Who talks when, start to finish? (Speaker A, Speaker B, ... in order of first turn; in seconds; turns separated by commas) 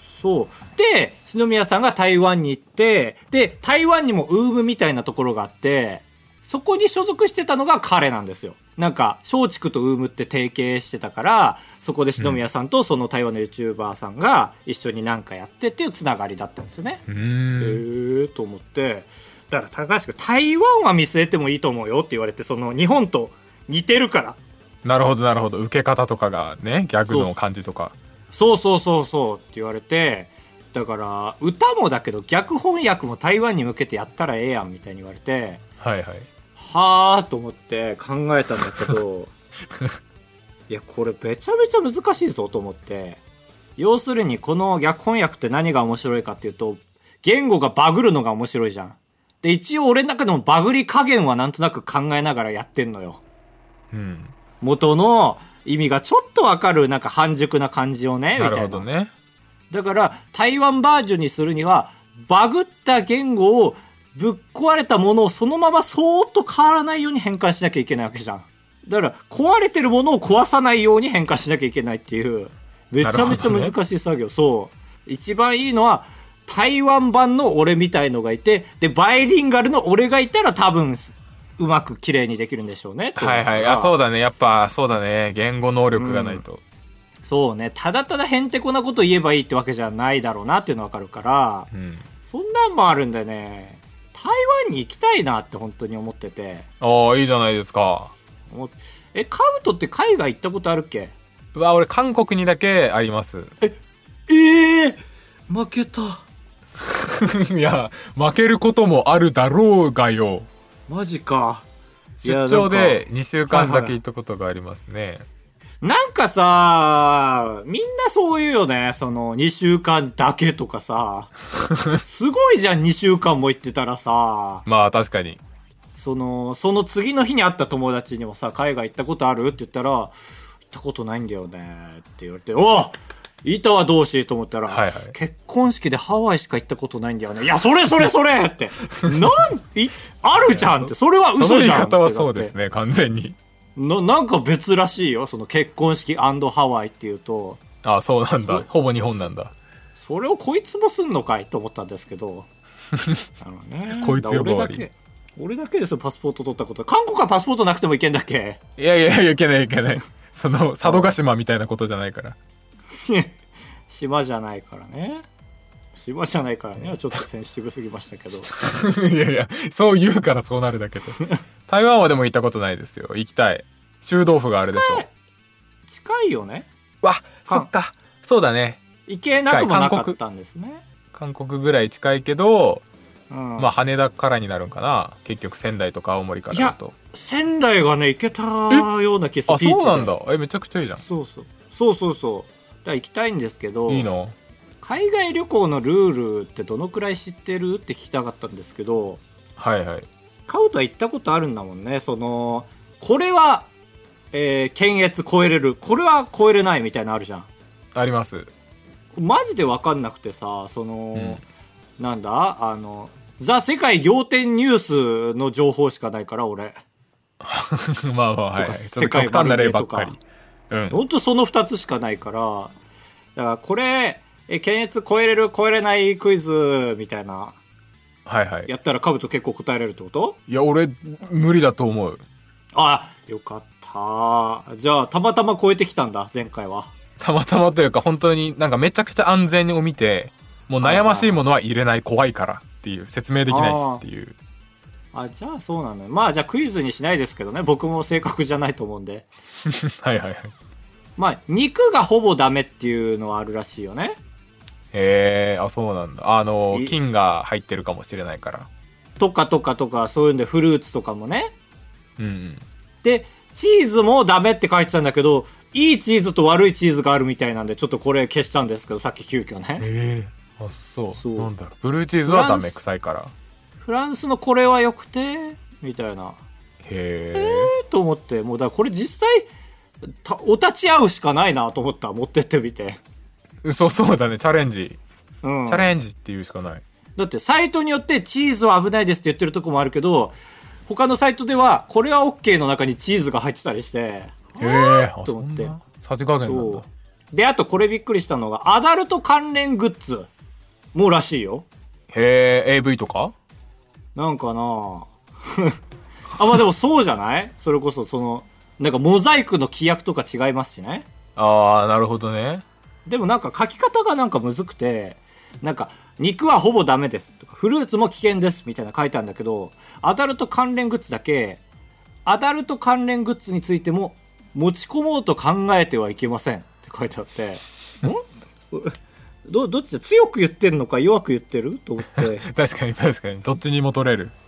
Speaker A: 0.1-17.0, Speaker B: 17.1-17.8, Speaker A: 17.6-24.4, Speaker B: 24.8-27.9, Speaker A: 28.3-35.6, Speaker B: 35.8-36.3, Speaker A: 36.5-39.3, Speaker A: 40.7-43.2, Speaker A: 43.8-53.2, Speaker B: 53.9-54.3, Speaker A: 54.6-58.9, Speaker B: 58.4-59.1, Speaker A: 59.7-83.9, Speaker B: 73.0-73.7, Speaker B: 83.2-86.6, Speaker A: 85.9-86.4, Speaker A: 87.2-91.7, Speaker B: 91.7-92.0, Speaker A: 92.2-96.7, Speaker B: 96.8-98.1, Speaker A: 98.5-101.1, Speaker B: 101.5-103.5, Speaker A: 104.3-106.2, Speaker B: 106.8-110.5, Speaker A: 110.9-111.7, Speaker B: 112.2-115.2, Speaker A: 112.2-114.0, Speaker A: 115.8-121.3, Speaker B: 121.7-122.0, Speaker A: 122.0-124.6, Speaker B: 124.6-125.4, Speaker A: 126.0-130.1, Speaker A: 130.7-142.5, Speaker B: 134.7-135.1, Speaker B: 140.5-143.4, Speaker A: 143.8-147.6, Speaker B: 147.8-149.5, Speaker A: 150.0-152.5, Speaker B: 152.9-153.2, Speaker A: 153.4-158.6, Speaker B: 153.9-154.8, Speaker B: 158.8-162.4, Speaker A: 160.8-161.1, Speaker A: 162.9-163.3, Speaker A: 163.9-165.2, Speaker A: 165.9-168.5, Speaker B: 168.5-175.0, Speaker A: 174.6-175.1, Speaker A: 175.9-176.7, Speaker B: 177.0-178.8, Speaker A: 179.1-180.8, Speaker B: 179.3-180.2, Speaker B: 181.1-182.8, Speaker A: 183.3-183.7, Speaker B: 183.6-186.9, Speaker A: 186.5-190.1, Speaker B: 189.5-191.0, Speaker A: 191.0-194.1, Speaker B: 193.9-194.3, Speaker A: 194.8-199.2, Speaker B: 199.6-200.1, Speaker A: 200.5-203.7, Speaker A: 204.3-207.5, Speaker B: 207.9-208.5, Speaker A: 209.2-211.4, Speaker A: 212.0-216.8, Speaker B: 217.4-221.0, Speaker A: 218.6-220.1, Speaker A: 220.9-222.7, Speaker A: 223.3-227.6, Speaker B: 228.2-228.7, Speaker A: 228.7-230.4, Speaker B: 230.5-232.2, Speaker A: 232.7-236.9, Speaker B: 237.2-244.4, Speaker A: 240.8-241.4, Speaker A: 243.5-244.0, Speaker A: 245.1-249.3, Speaker B: 249.7-250.5, Speaker A: 251.2-254.2, Speaker B: 254.9-258.7, Speaker A: 259.2-261.5, Speaker B: 262.2-262.6, Speaker A: 263.0-269.8, Speaker B: 269.8-273.3, Speaker A: 271.2-271.5, Speaker A: 272.2-272.8, Speaker A: 273.8-276.4, Speaker B: 276.8-277.7, Speaker A: 277.3-279.5, Speaker A: 280.0-283.0, Speaker B: 283.6-285.0, Speaker A: 285.4-285.9, Speaker B: 285.7-286.8, Speaker A: 287.1-290.4, Speaker A: 290.9-295.7, Speaker B: 294.6-296.9, Speaker A: 296.4-300.3, Speaker A: 300.9-301.6, Speaker B: 302.1-303.3, Speaker A: 304.1-305.8, Speaker A: 306.3-311.1, Speaker B: 311.4-312.6, Speaker A: 313.1-321.6, Speaker A: 322.2-332.5, Speaker B: 332.1-334.3